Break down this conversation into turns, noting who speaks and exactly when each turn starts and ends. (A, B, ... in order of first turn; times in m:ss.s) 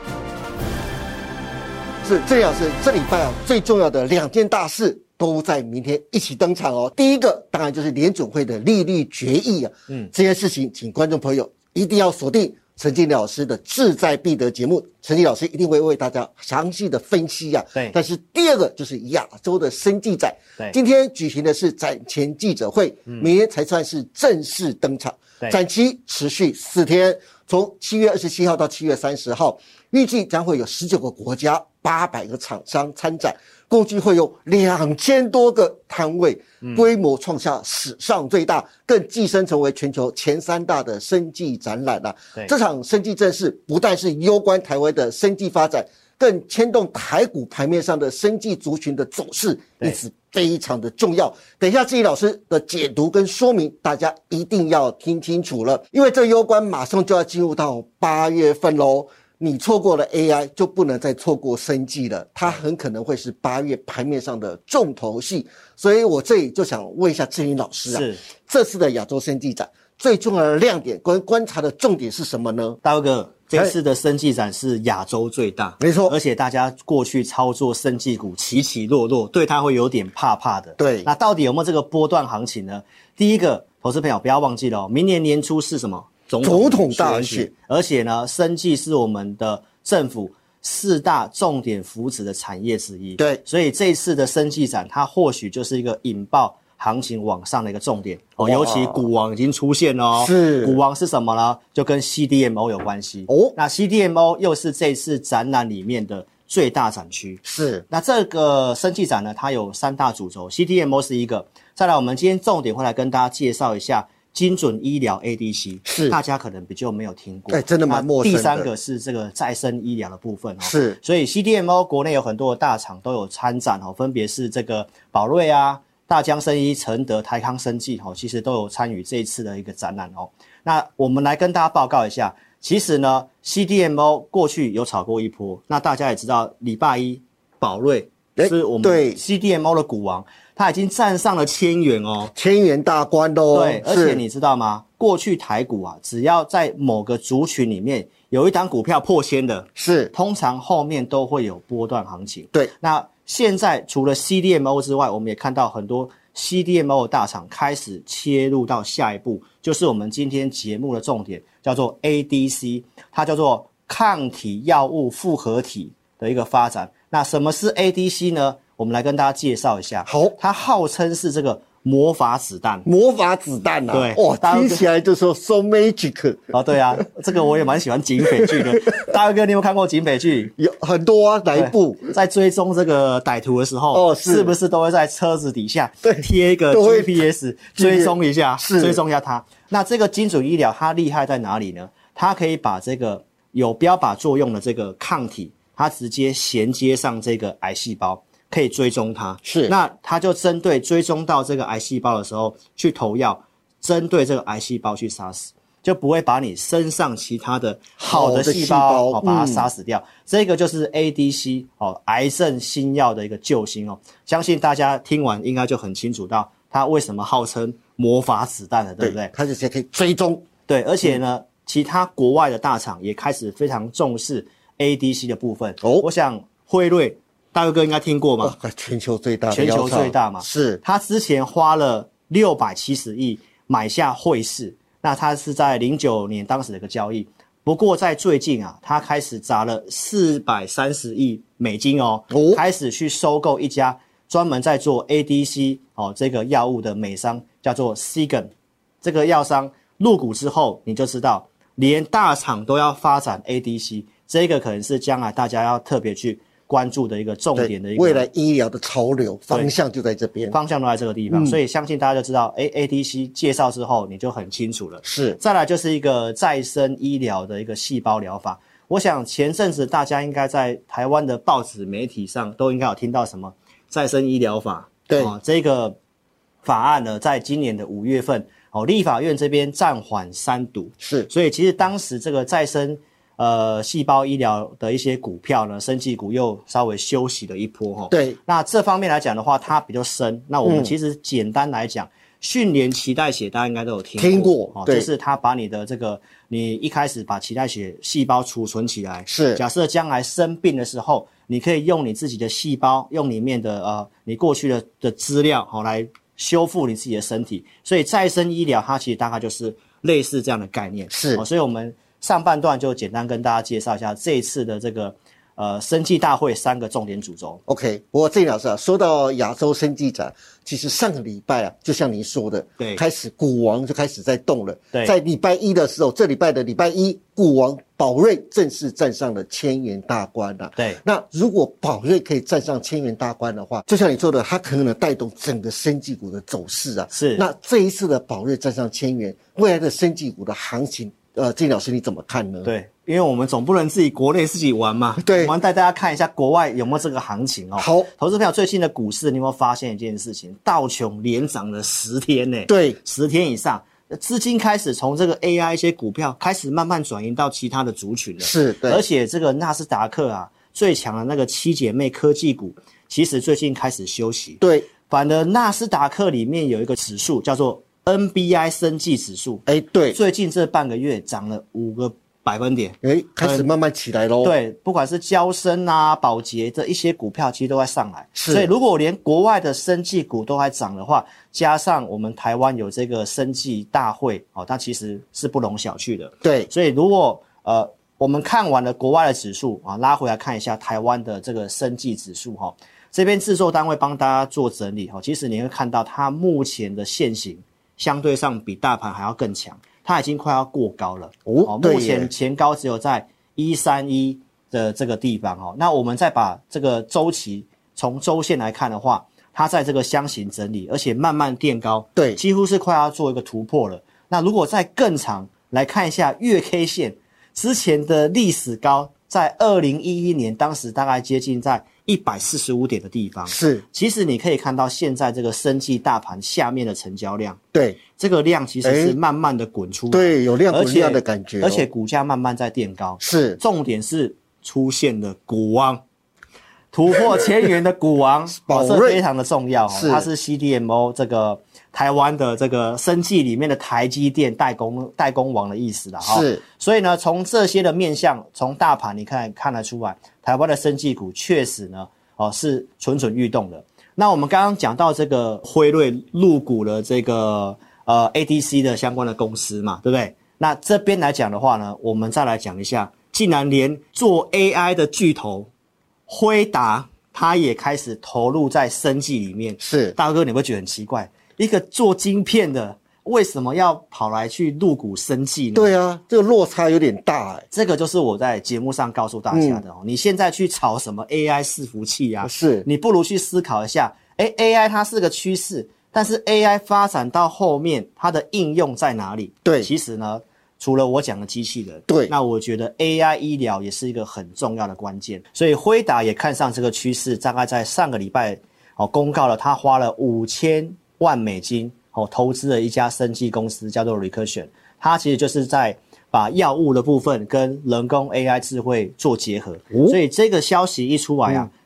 0:02.0-1:12.8 A
0:36.6-0:36.9 B
1:07.9-1:08.2 B
1:12.8-2:22.3 B
1:15.8-1:16.2 A
1:20.8-1:21.1 A
1:26.4-1:27.5 A
1:38.4-1:39.1 A
1:40.2-1:40.8 A
1:43.3-1:43.6 A
1:47.4-1:47.8 A
1:55.9-1:56.2 A
1:57.5-1:58.7 A
2:00.6-2:01.0 A
2:18.4-2:19.2 A
2:22.3-2:24.2 A
2:23.5-2:52.8 B
2:29.8-2:30.1 A
2:50.0-2:50.4 A
2:52.8-2:57.0 A
2:53.9-2:54.8 B
2:56.5-3:00.5 B
3:00.6-3:02.1 A
3:01.5-3:39.3 B
3:03.9-3:04.5 A
3:06.0-3:07.2 A
3:07.8-3:09.0 A
3:19.4-3:19.7 A
3:28.0-3:29.7 A
3:39.0-3:40.4 A
3:40.7-3:48.6 B
3:45.8-3:46.1 A
3:48.4-3:50.8 A
3:49.5-4:08.5 B
4:02.3-4:02.6 A
4:09.0-4:18.3 B
4:17.6-4:20.6 A
4:19.5-4:19.7 B
4:20.5-4:36.0 B
4:21.3-4:21.6 A
4:25.0-4:25.4 A
4:35.1-4:35.3 A
4:36.6-5:17.6 B
4:41.0-4:41.3 A
4:48.1-4:48.4 A
4:50.6-4:50.9 A
4:54.2-4:55.1 A
4:59.3-4:59.6 A
5:11.1-5:11.4 A
5:17.7-5:42.7 A
5:37.1-5:37.4 B
5:42.6-6:13.7 B
5:45.2-5:45.5 A
5:47.8-5:48.1 A
5:52.7-5:53.0 A
5:58.4-5:59.0 A
6:04.6-6:04.9 A
6:09.7-6:10.2 A
6:13.0-6:14.5 A
6:14.4-7:07.6 B
6:18.4-6:18.7 A
6:26.4-6:26.7 A
6:41.4-6:42.3 A
7:03.4-7:03.8 A
7:07.7-7:08.0 A
7:08.2-7:16.0 B
7:08.8-7:09.2 A
7:10.1-7:11.8 A
7:13.2-7:13.6 A
7:16.9-7:45.7 B
7:18.6-7:19.2 A
7:19.9-7:20.3 A
7:26.2-7:26.6 A
7:46.3-7:55.9 B
7:49.8-7:50.2 A
7:55.7-7:57.6 A
7:57.7-8:31.7 B
7:59.5-7:59.8 A
8:02.4-8:02.9 A
8:09.6-8:09.9 A
8:29.9-8:30.2 A